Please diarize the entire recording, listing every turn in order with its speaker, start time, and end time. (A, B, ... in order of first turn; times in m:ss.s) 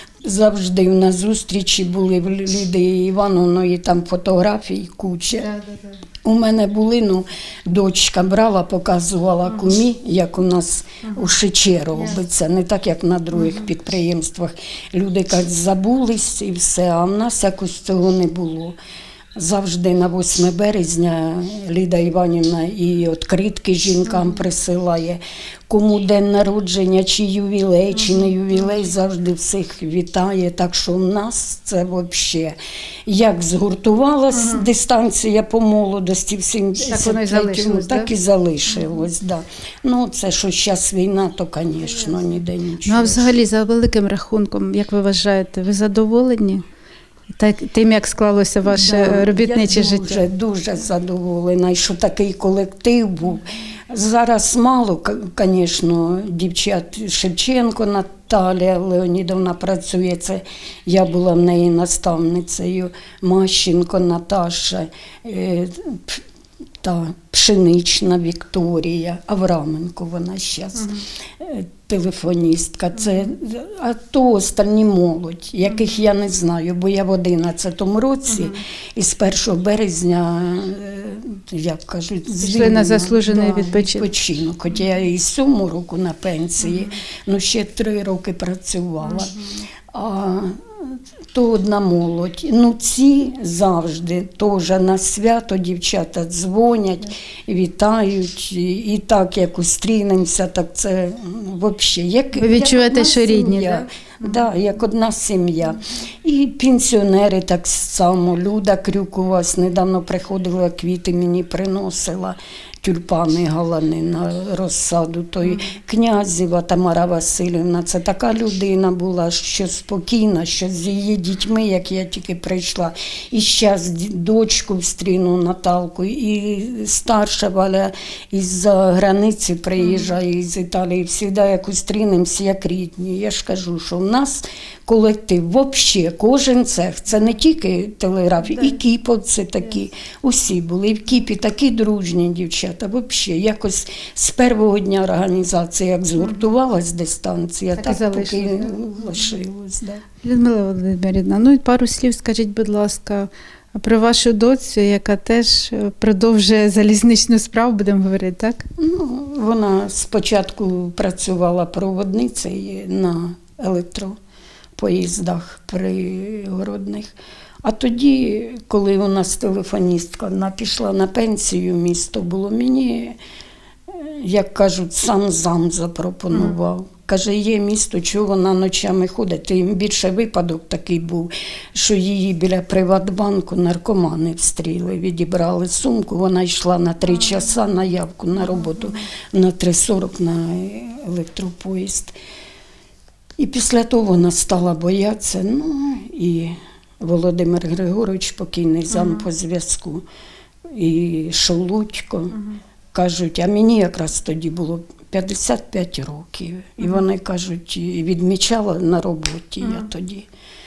0:00.2-0:05.5 A
0:05.4-0:06.0 B
0:06.2-0:18.8 A
0:19.4-0:43.3 A
0:34.4-0:34.7 B
0:36.9-0:38.1 B
0:42.8-0:46.6 B
0:47.3-0:50.2 B
0:48.6-1:06.2 A
1:06.8-2:30.0 A
1:22.4-1:24.1 B
1:42.4-1:43.9 B
2:09.8-2:10.1 B
2:27.8-2:28.8 B
2:30.2-2:38.6 B
2:38.8-2:44.2 A
2:44.8-2:53.2 A
2:53.9-3:12.2 A
3:13.4-3:20.0 A
3:18.9-3:19.2 B
3:20.7-3:22.4 A
3:22.9-3:30.3 A